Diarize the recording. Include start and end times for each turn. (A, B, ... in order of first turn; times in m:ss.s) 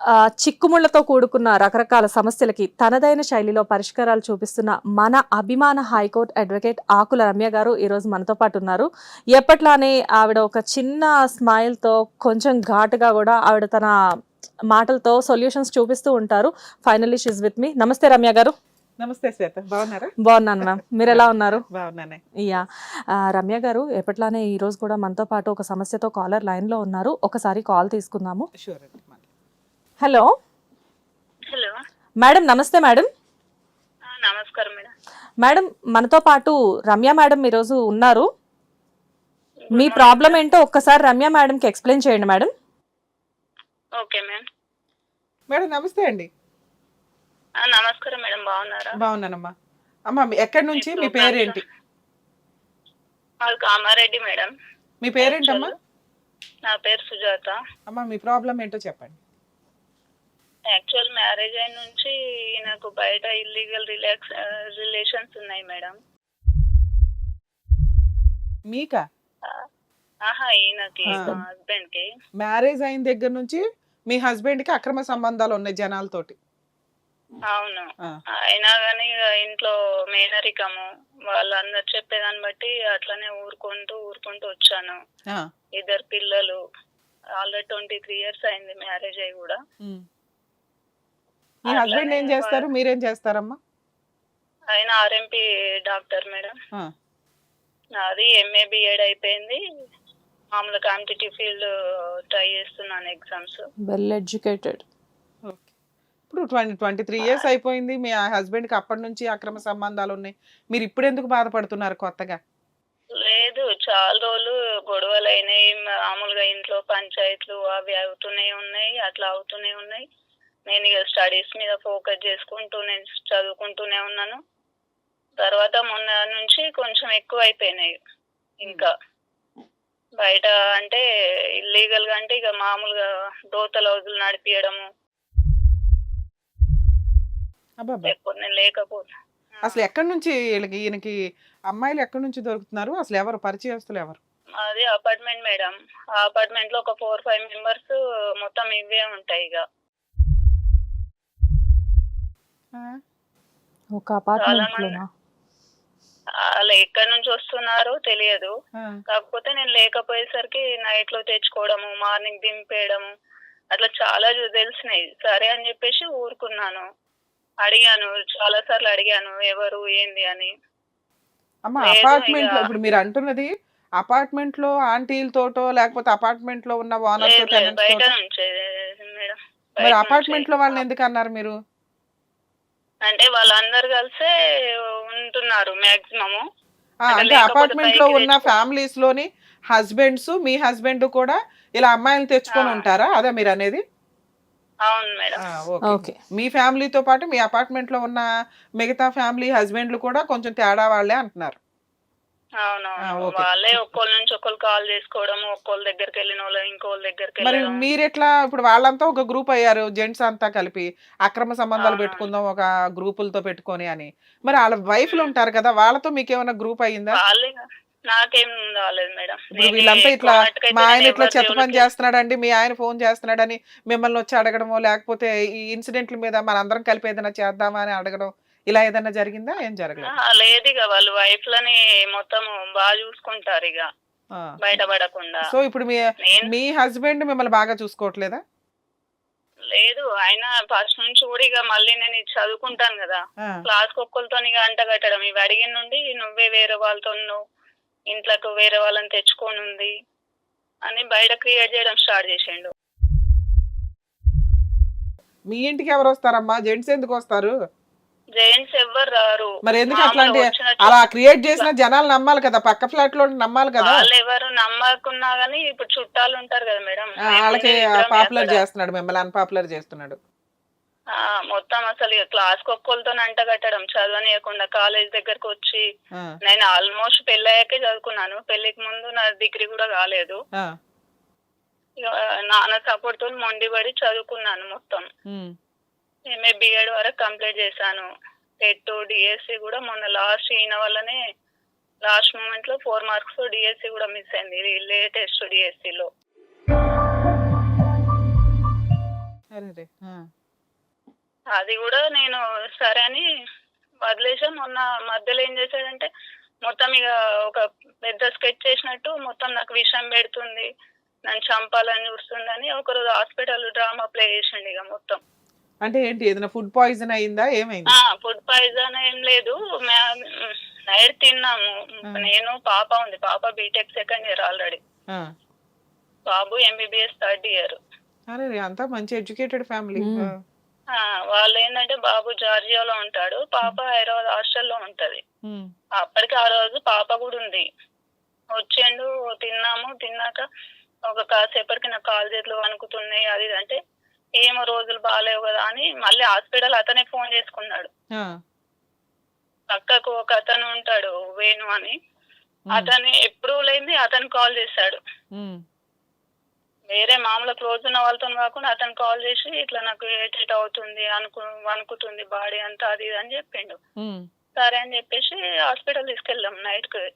0:00.4-0:13.9 A
0:14.7-0:18.5 A
0:19.0-0:20.1 B
0:20.2-0:21.6 A
0:21.1-0:22.2 B
0:23.3-0:28.5 A
0:28.6-0:29.2 B
0:30.0-0:30.3 A
0:32.2-0:33.1 A
0:34.1-0:34.9 C
0:35.4-0:38.2 A
0:39.7-0:40.4 C
0:39.7-0:42.5 A
0:44.0-0:44.4 C
0:45.5-0:46.3 B
0:47.6-0:48.9 C
0:49.0-0:49.5 B
0:50.1-0:51.6 B
0:50.7-0:51.6 C
0:53.4-0:54.5 C
0:55.0-0:55.7 B
0:55.2-0:55.7 C
0:56.7-0:57.6 C
0:57.9-0:59.2 B
1:00.7-1:05.9 C
1:08.7-1:09.0 B
1:10.3-1:12.0 C
1:11.1-1:11.4 A
1:12.4-1:16.4 B
1:17.5-1:17.9 C
1:18.5-1:25.0 C
1:25.8-1:26.6 C
1:27.4-1:29.6 C
1:31.7-1:33.6 B
1:31.7-1:32.6 C
1:34.7-1:36.5 C
1:38.0-1:39.6 C
1:40.5-1:41.7 C
1:42.3-1:43.6 C
1:43.9-1:44.8 A
1:46.3-1:52.4 B
1:53.2-2:00.0 C
2:00.7-2:04.4 C
2:05.4-2:07.9 C
2:08.6-2:08.9 C
2:10.2-2:11.0 C
2:11.7-2:14.8 C
2:17.8-2:18.1 B
2:18.0-2:19.9 C
2:19.6-2:21.2 B
2:21.7-2:24.2 B
2:24.6-2:29.6 C
2:34.0-2:35.1 A
2:34.4-2:34.9 C
2:36.6-2:38.5 C
2:39.1-2:43.1 C
2:43.7-2:46.8 C
2:47.6-2:50.5 C
2:51.7-2:58.1 B
2:51.8-2:52.5 C
2:57.2-3:00.8 C
2:59.8-3:01.5 B
3:03.0-3:04.3 C
3:05.1-3:06.4 C
3:07.1-3:13.8 B
3:07.1-3:08.5 C
3:12.5-3:12.8 C
3:14.9-3:15.4 C
3:15.4-3:18.2 B
3:15.8-3:16.2 A
3:18.8-3:21.6 B
3:22.6-3:27.8 C
3:23.0-3:23.5 B
3:27.4-3:37.2 B
3:31.8-3:32.3 C
3:37.1-3:41.9 C
3:39.5-3:50.1 B
3:50.1-3:53.8 C
3:54.6-3:55.4 C
3:55.5-3:58.4 B
3:56.2-3:56.5 C
3:59.7-4:07.4 C
4:08.1-4:09.9 C
4:10.9-4:12.7 C
4:15.5-4:17.5 B
4:18.4-4:21.0 C
4:19.6-4:24.0 B
4:23.8-4:28.6 C
4:27.2-4:30.2 B
4:31.4-4:35.8 C
4:36.4-4:40.4 C
4:42.5-4:45.0 C
4:45.3-4:45.5 B
4:46.3-4:48.0 C
4:48.6-4:51.2 C
4:52.0-4:56.1 C
4:59.5-5:00.2 B
5:01.5-5:03.2 C
5:04.0-5:06.1 C
5:06.6-5:10.6 C
5:11.3-5:15.2 C
5:15.8-5:17.9 B
5:17.9-5:24.8 C
5:26.3-5:27.8 C
5:28.3-5:30.3 B
5:30.0-5:30.3 A
5:30.9-5:35.2 C
5:36.0-5:37.6 C
5:38.6-5:40.4 C
5:41.1-5:43.8 C
5:44.4-5:47.9 C
5:49.7-5:51.9 C
5:52.7-5:55.0 C
5:56.9-6:03.8 C
6:04.6-6:07.0 C